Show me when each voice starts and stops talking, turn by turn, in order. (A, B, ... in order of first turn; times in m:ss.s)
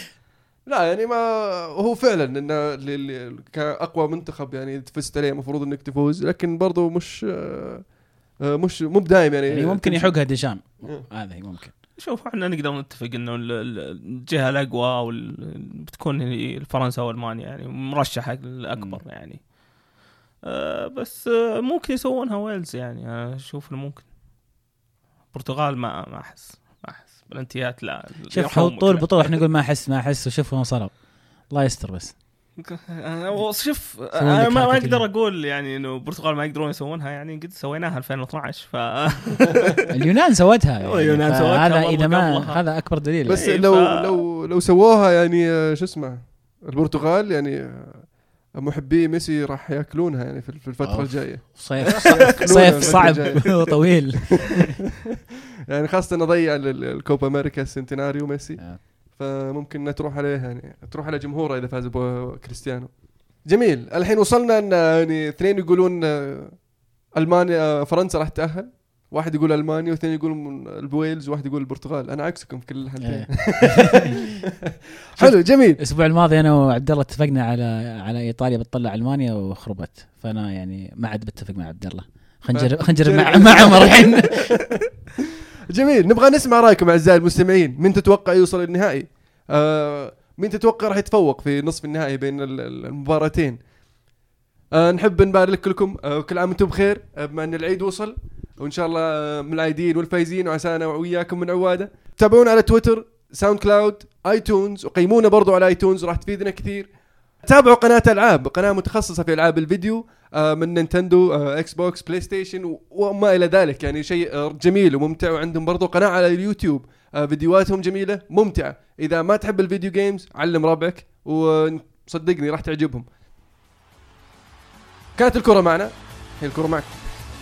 0:00.6-0:10.2 A
0:09.5-0:11.7 B
0:12.0-0:19.5 C
0:18.8-0:19.0 B
0:20.5-0:24.1 C
0:25.3-0:29.4 C
0:28.3-0:32.2 B
0:32.6-0:39.9 C
0:34.1-0:35.0 B
0:39.9-0:43.4 B
0:40.8-0:42.6 C
0:43.3-0:53.7 A
0:43.4-0:44.2 C
0:50.8-0:54.7 B
0:52.0-0:53.6 C
0:55.7-1:14.4 A
1:13.0-1:14.0 B
1:15.1-1:15.8 A
1:15.2-1:24.5 B
1:22.5-1:24.9 A
1:25.7-1:33.6 A
1:34.7-1:46.9 A
1:47.4-2:03.1 A
2:05.2-2:07.1 A